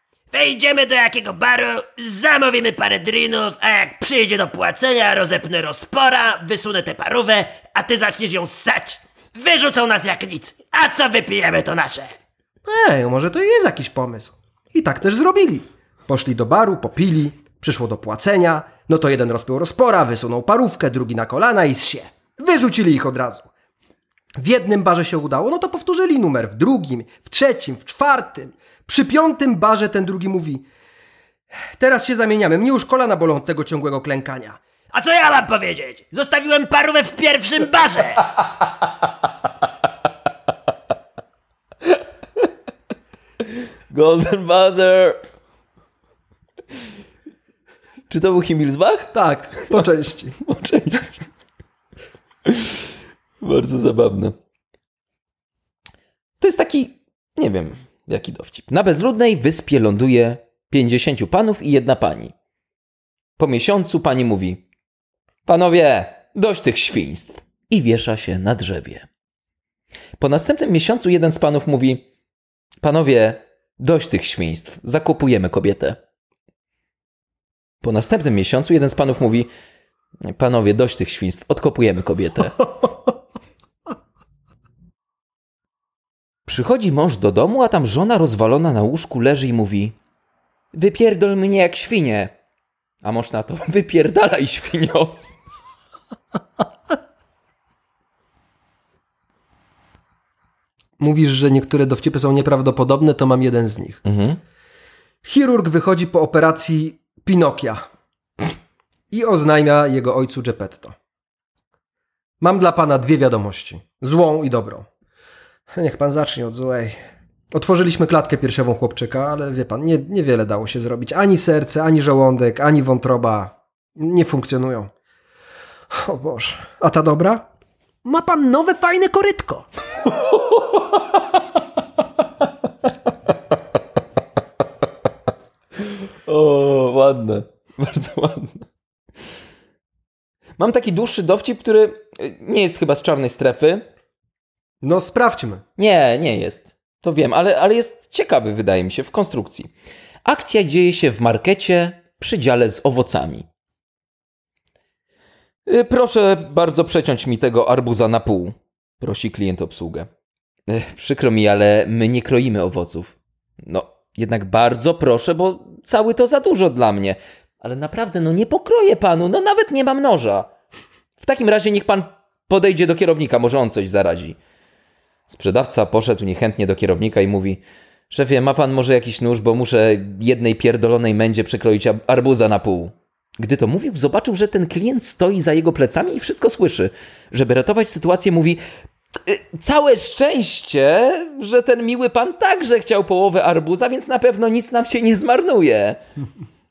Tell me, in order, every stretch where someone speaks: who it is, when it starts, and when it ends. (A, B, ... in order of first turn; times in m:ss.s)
0:00.3-0:12.1 A
0:12.6-0:23.5 B
0:24.4-0:30.6 B
0:31.8-0:34.6 B
0:34.9-0:38.2 A
0:43.5-0:45.2 C
0:48.1-0:49.1 C
0:49.1-0:50.4 B
0:50.4-0:51.2 C
0:52.4-0:52.8 C
0:53.4-0:54.3 C
0:56.4-1:02.3 C
1:03.4-1:04.6 C
1:05.4-1:09.1 C
1:10.2-1:12.0 C
1:12.8-1:16.0 C
1:17.8-1:19.5 C
1:20.2-1:22.7 C
1:26.4-1:30.0 C
1:30.7-1:32.3 C
1:33.0-1:35.2 C
1:41.0-1:44.0 B
1:44.0-1:44.4 C
1:45.2-1:47.8 B
1:49.1-1:50.9 B
1:52.4-1:54.9 B
1:55.7-1:57.0 B
1:57.5-2:04.9 B
2:05.9-2:07.5 B
2:08.0-2:09.7 B
2:10.0-2:11.4 C
2:15.8-2:18.6 C
2:20.6-2:23.8 C
2:24.8-2:25.6 B
2:25.8-2:29.7 C
2:30.2-2:33.5 C
2:35.7-2:40.1 C
2:40.7-2:50.5 C
2:51.2-2:54.4 C
2:55.3-3:08.6 C
3:09.2-3:16.0 C